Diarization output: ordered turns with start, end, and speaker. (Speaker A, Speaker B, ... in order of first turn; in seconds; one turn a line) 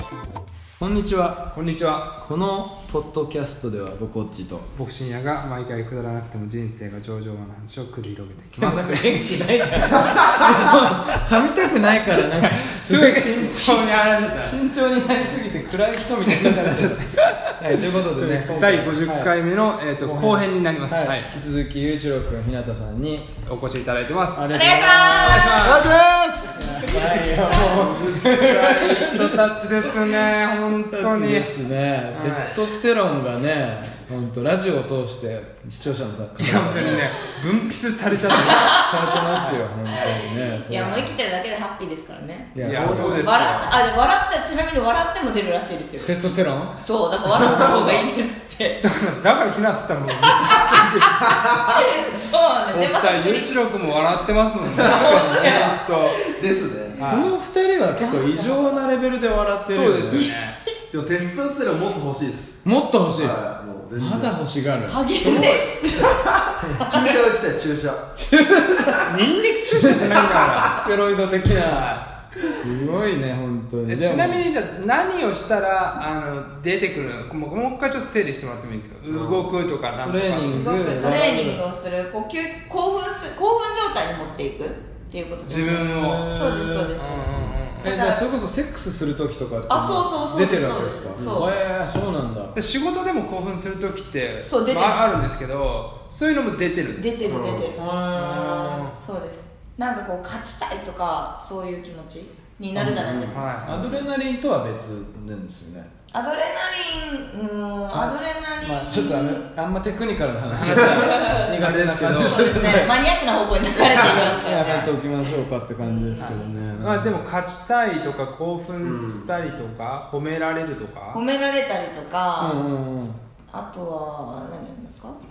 Speaker A: 0.8-1.5
Speaker B: 1.5-2.1
Speaker A: 2.2-4.7
Speaker B: 4.8-9.3
Speaker A: 8.6-19.3
Speaker C: 10.0-10.4
Speaker B: 12.3-14.6
Speaker B: 16.2-21.3
Speaker A: 20.0-23.4
Speaker B: 23.4-25.9
Speaker A: 24.3-25.7
Speaker D: 24.5-25.6
Speaker C: 25.6-26.6
Speaker A: 26.5-29.5
Speaker B: 27.6-31.5
Speaker A: 30.5-37.1
Speaker B: 32.1-32.5
Speaker B: 36.4-40.2
Speaker D: 36.9-37.2
Speaker D: 38.4-39.4
Speaker A: 38.7-41.1
Speaker D: 39.9-42.5
Speaker A: 42.5-43.3
Speaker B: 42.6-43.8
Speaker C: 42.7-43.4
Speaker D: 43.2-46.1
Speaker A: 46.0-46.8
Speaker D: 46.8-48.8
Speaker C: 47.4-48.0
Speaker B: 48.8-51.4
Speaker D: 50.2-51.0
Speaker C: 51.3-51.8
Speaker D: 51.8-53.6
Speaker B: 52.7-56.2
Speaker D: 54.7-56.2
Speaker C: 54.8-55.2
Speaker A: 55.0-55.6
Speaker C: 56.3-57.0
Speaker B: 57.0-57.3
Speaker A: 57.0-60.3
Speaker D: 58.0-58.8
Speaker B: 59.6-60.6
Speaker C: 60.9-62.6
Speaker A: 62.6-63.4
Speaker C: 63.2-64.3
Speaker A: 63.9-65.7
Speaker D: 64.9-66.2
Speaker C: 65.9-69.0
Speaker D: 66.8-67.1
Speaker A: 68.2-69.0
Speaker B: 69.0-70.9
Speaker A: 70.6-71.9
Speaker B: 71.6-72.1
Speaker A: 72.5-74.5
Speaker B: 73.9-81.1
Speaker C: 79.1-79.5
Speaker A: 80.0-81.6
Speaker D: 80.5-88.2
Speaker A: 85.5-92.6
Speaker B: 85.5-86.3
Speaker B: 87.0-88.0
Speaker D: 89.7-91.5
Speaker C: 91.2-91.5
Speaker B: 92.5-97.4
Speaker D: 94.5-95.1
Speaker D: 97.0-103.5
Speaker C: 97.2-97.7
Speaker A: 97.8-98.9
Speaker B: 98.2-99.0
Speaker A: 102.8-105.9
Speaker C: 102.8-103.4
Speaker B: 103.3-104.0
Speaker D: 106.1-109.5
Speaker A: 107.9-112.9
Speaker B: 110.5-112.4
Speaker D: 110.9-111.5
Speaker D: 112.1-114.9
Speaker A: 113.9-117.2
Speaker B: 114.6-114.9
Speaker D: 115.8-116.5
Speaker B: 116.2-121.2
Speaker C: 118.8-119.3
Speaker D: 121.1-122.6
Speaker A: 122.4-123.2
Speaker D: 123.5-125.2